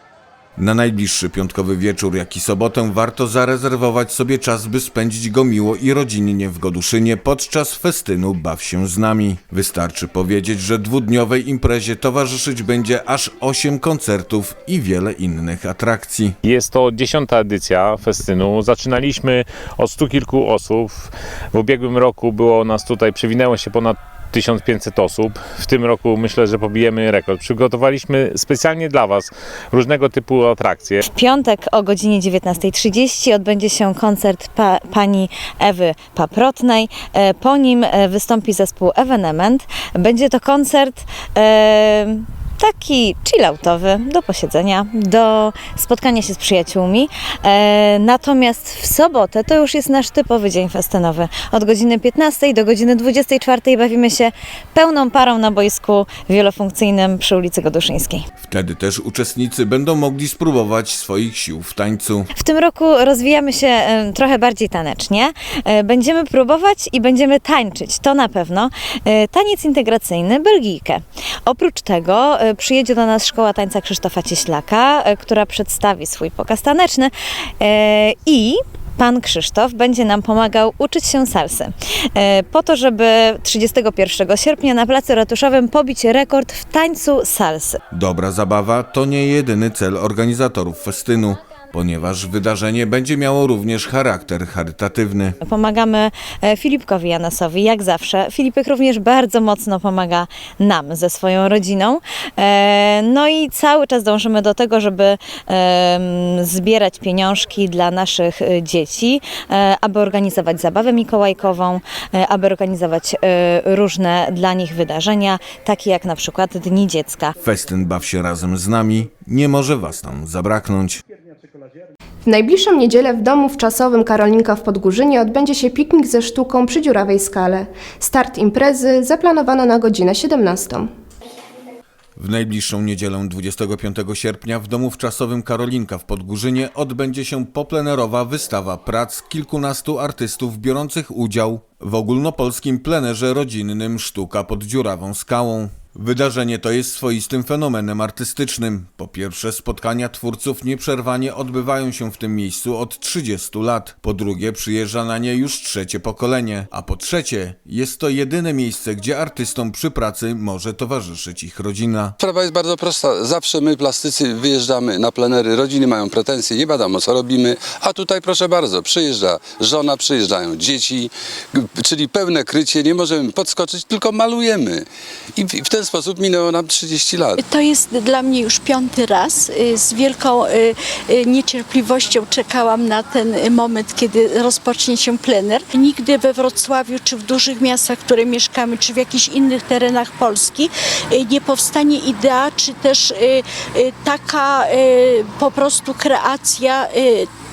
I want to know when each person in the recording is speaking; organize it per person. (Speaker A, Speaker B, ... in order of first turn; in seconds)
Speaker A: 0.6-16.4, 58.4-62.3, 87.9-95.4, 117.4-121.0, 132.2-162.2
Speaker B: 16.4-31.0
Speaker C: 31.1-58.3, 62.3-87.8, 95.4-117.3
Speaker D: 122.2-130.9
Speaker E: 162.2-174.8, 175.4-177.4
Speaker F: 177.4-197.3